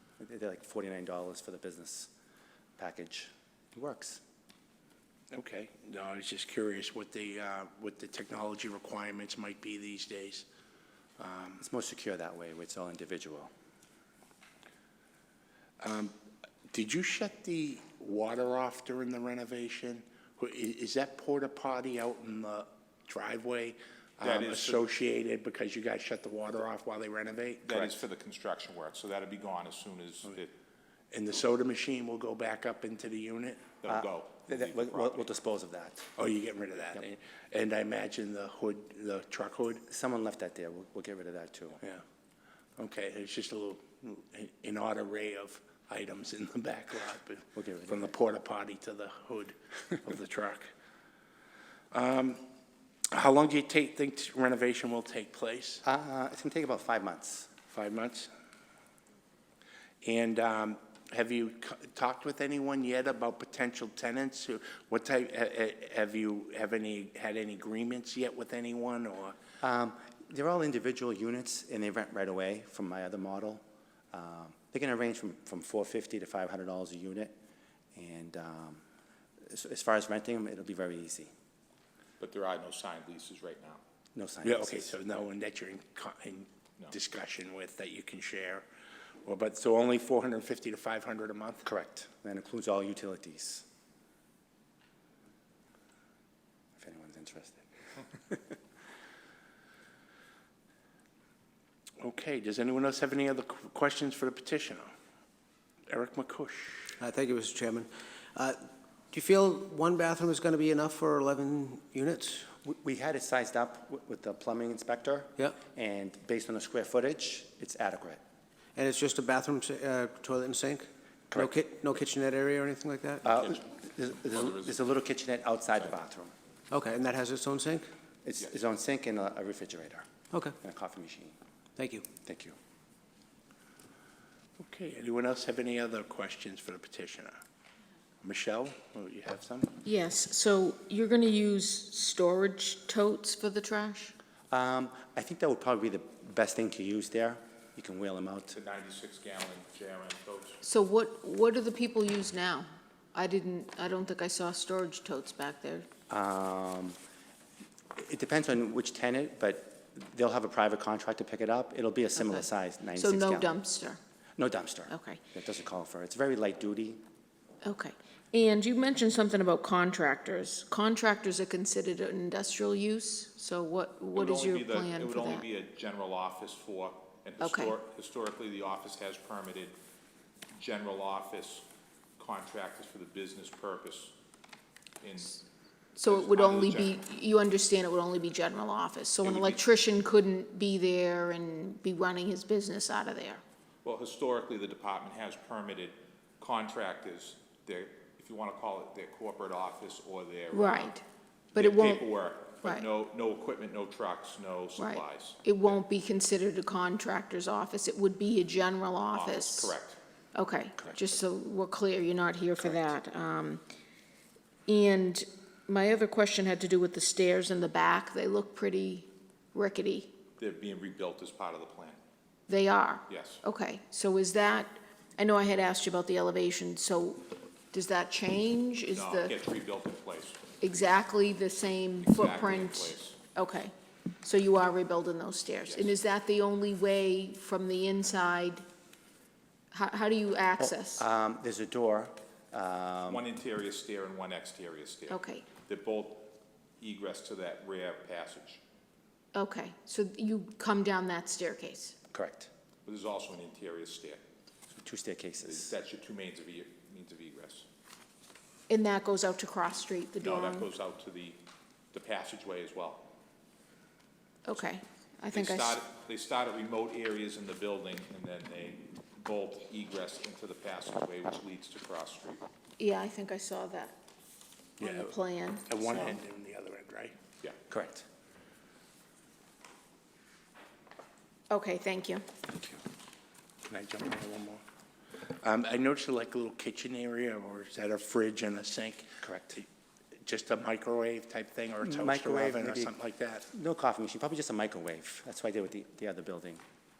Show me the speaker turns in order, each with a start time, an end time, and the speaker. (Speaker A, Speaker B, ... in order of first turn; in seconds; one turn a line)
Speaker A: 0.2-2.1
Speaker A: 2.8-4.2
Speaker B: 5.3-10.5
Speaker B: 11.2-11.6
Speaker A: 11.6-13.5
Speaker B: 15.8-16.1
Speaker B: 16.7-28.0
Speaker C: 24.2-24.9
Speaker C: 27.7-30.5
Speaker B: 31.1-33.8
Speaker C: 33.8-35.3
Speaker A: 33.9-36.1
Speaker B: 36.2-39.8
Speaker A: 39.9-41.8
Speaker B: 42.8-50.7
Speaker A: 47.5-48.0
Speaker B: 51.9-52.4
Speaker B: 53.1-55.8
Speaker A: 55.8-57.5
Speaker B: 57.7-58.3
Speaker B: 60.0-69.4
Speaker A: 69.6-77.3
Speaker A: 78.0-78.8
Speaker A: 79.5-81.3
Speaker C: 82.2-83.8
Speaker A: 84.2-85.0
Speaker B: 84.4-88.7
Speaker B: 89.2-91.7
Speaker A: 91.7-93.7
Speaker A: 96.8-98.6
Speaker B: 102.0-104.9
Speaker B: 105.9-106.9
Speaker D: 107.0-112.5
Speaker A: 112.6-118.2
Speaker D: 118.8-123.3
Speaker A: 123.2-126.3
Speaker D: 126.7-127.9
Speaker A: 128.2-130.1
Speaker A: 130.6-131.3
Speaker D: 131.8-132.1
Speaker A: 132.2-132.6
Speaker B: 134.6-137.4
Speaker B: 138.2-139.7
Speaker E: 139.8-144.2
Speaker A: 144.5-148.6
Speaker C: 148.5-150.6
Speaker E: 150.6-155.9
Speaker A: 156.1-157.0
Speaker A: 158.0-163.6
Speaker E: 162.2-164.0
Speaker A: 164.4-167.0
Speaker E: 164.9-165.2
Speaker E: 167.6-175.4
Speaker C: 174.2-179.8
Speaker E: 177.4-177.8
Speaker C: 180.5-181.7
Speaker C: 182.2-184.1
Speaker C: 185.0-185.4
Speaker E: 186.0-193.4
Speaker C: 186.0-187.0
Speaker C: 189.2-189.8
Speaker C: 193.8-200.9
Speaker E: 200.5-201.0
Speaker E: 201.6-202.1
Speaker C: 201.6-205.8
Speaker E: 204.8-209.7
Speaker C: 209.1-210.0
Speaker E: 210.3-213.6
Speaker E: 214.7-220.1
Speaker C: 220.4-222.0
Speaker E: 222.5-229.4
Speaker C: 223.1-223.4
Speaker C: 228.9-230.4
Speaker E: 230.6-238.6
Speaker C: 232.0-233.2
Speaker C: 235.7-235.9
Speaker E: 239.7-241.0
Speaker A: 240.6-243.2
Speaker C: 243.1-248.6
Speaker E: 245.1-245.5
Speaker E: 249.3-252.0
Speaker A: 252.1-252.5
Speaker C: 252.9-254.2
Speaker A: 254.7-255.7
Speaker C: 255.4-257.7
Speaker E: 258.7-260.7
Speaker C: 260.2-261.4
Speaker C: 261.9-263.1
Speaker E: 264.4-265.8
Speaker C: 265.3-272.4
Speaker E: 272.8-273.9
Speaker B: 274.8-275.1
Speaker E: 274.8-276.2
Speaker B: 275.7-277.2
Speaker A: 277.7-278.1
Speaker E: 281.5-282.2
Speaker B: 283.7-284.6
Speaker B: 285.4-289.1
Speaker A: 289.2-289.6
Speaker B: 290.3-293.5
Speaker A: 291.8-292.9
Speaker A: 293.5-296.6